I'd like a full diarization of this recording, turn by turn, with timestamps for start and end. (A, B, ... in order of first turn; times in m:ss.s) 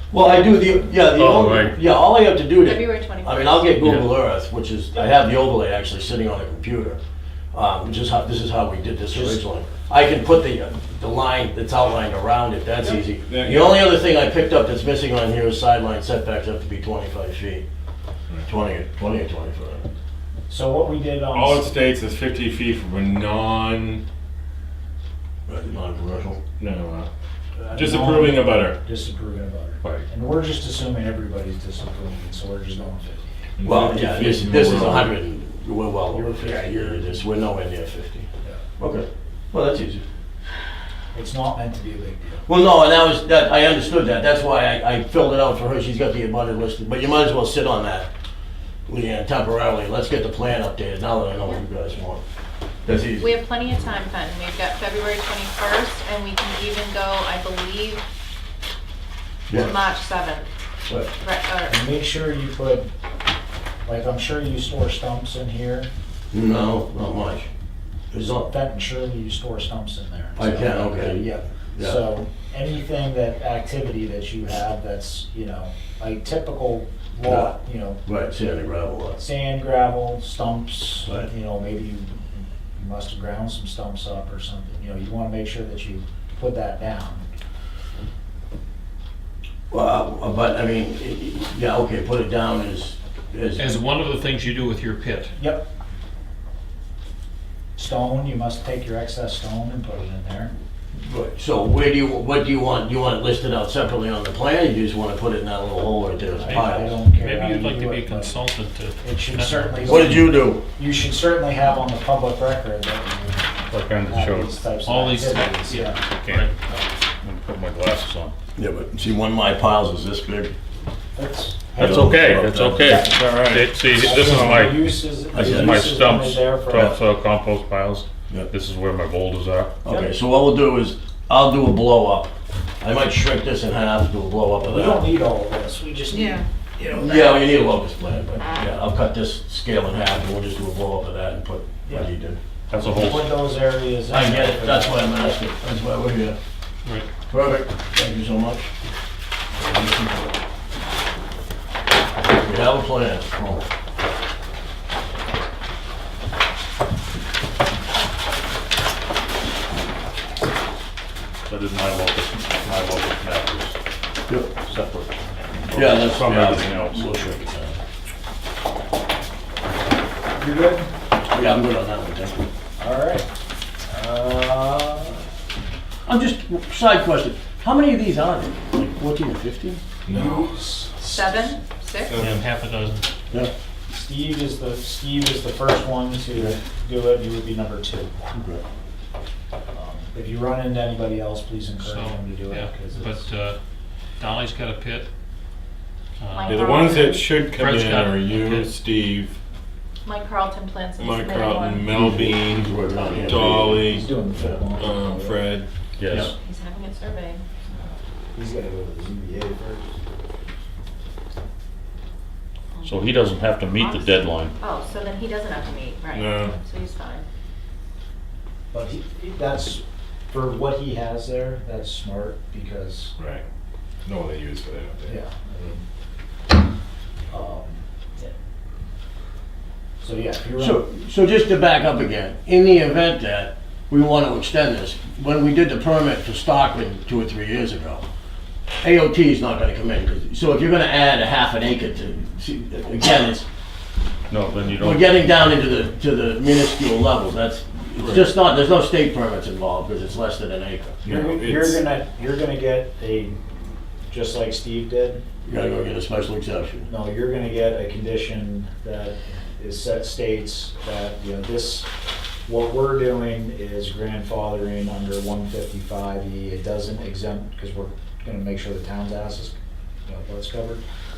0:00.1-0:07.0 A
0:01.1-0:01.8 B
0:02.6-0:03.7 C
0:03.8-0:04.1 B
0:07.5-0:17.6 A
0:09.1-0:09.4 D
0:13.0-0:14.0 E
0:18.5-0:19.9 A
0:20.5-0:21.7 D
0:21.3-0:24.0 E
0:25.5-0:26.4 A
0:26.6-0:27.1 E
0:27.6-0:33.4 D
0:27.7-0:28.8 E
0:33.6-0:35.2 E
0:33.6-0:40.0 A
0:36.1-0:37.2 D
0:41.1-0:42.4 D
0:42.5-0:48.1 A
0:48.9-0:52.2 A
0:52.8-0:53.3 A
0:53.2-0:58.0 C
0:59.5-0:59.8 A
0:59.5-1:00.5 C
1:00.8-1:01.1 A
1:01.2-1:01.8 C
1:01.7-1:02.9 D
1:03.8-1:05.9 D
1:06.3-1:07.5 A
1:08.1-1:08.5 A
1:08.5-1:18.0 D
1:10.4-1:12.0 A
1:17.2-1:19.2 A
1:19.2-1:27.3 D
1:29.7-1:33.8 A
1:33.6-1:35.4 F
1:35.4-1:35.7 D
1:37.8-1:40.5 D
1:41.0-1:47.0 A
1:46.3-1:48.4 D
1:46.4-1:50.2 F
1:49.0-1:53.5 D
1:49.8-1:50.6 A
1:53.7-1:54.5 B
1:54.0-1:56.0 D
1:54.8-1:56.5 F
1:56.1-1:56.4 B
1:57.2-1:58.3 B
1:58.6-2:00.6 A
2:01.2-2:07.0 D
2:01.8-2:09.8 B
2:01.8-2:03.0 A
2:05.3-2:05.8 A
2:09.8-2:15.1 A
2:14.6-2:17.4 D
2:16.1-2:16.4 C
2:16.9-2:22.4 A
2:21.9-2:22.1 D
2:22.7-2:23.3 B
2:22.8-2:25.1 D
2:24.1-2:26.4 A
2:27.3-2:28.7 A
2:29.6-2:30.4 A
2:32.3-2:33.6 A
2:41.5-2:43.8 B
2:44.3-2:44.6 A
2:44.6-2:47.1 B
2:45.7-2:47.8 A
2:50.4-2:50.9 D
2:51.3-2:52.5 A
2:52.8-2:53.2 D
2:53.9-2:55.2 D
2:56.1-2:59.8 A
3:00.1-3:00.5 E
3:00.1-3:01.1 D
3:01.1-3:02.2 C
3:02.0-3:02.4 E
3:02.2-3:03.1 F
3:03.9-3:08.1 D
3:08.3-3:08.6 A
3:09.7-3:13.2 D
3:11.8-3:13.6 F
3:14.2-3:15.1 F
3:16.2-3:16.8 F
3:16.3-3:17.3 C
3:16.5-3:19.4 E
3:17.5-3:18.7 F
3:20.0-3:22.0 C
3:21.0-3:25.7 E
3:21.9-3:23.8 A
3:23.3-3:25.4 D
3:26.0-3:26.3 B
3:26.1-3:27.4 C
3:27.7-3:30.0 D
3:32.7-3:33.1 C
3:32.8-3:34.6 B
3:33.8-3:34.1 C
3:34.6-3:37.3 C
3:36.1-3:36.6 E
3:38.7-3:43.1 D
3:43.2-3:43.4 E
3:44.1-3:45.2 E
3:45.1-3:45.8 D
3:47.3-3:48.3 D
3:50.0-3:50.8 D
3:50.6-3:58.0 A
3:58.8-4:03.5 A
4:04.3-4:05.1 B
4:04.8-4:11.0 A
4:08.0-4:08.3 E
4:11.0-4:11.8 E
4:11.1-4:13.4 D
4:14.1-4:15.2 D
4:15.4-4:16.9 A
4:16.9-4:21.9 D
4:22.5-4:29.6 D
4:30.1-4:30.8 D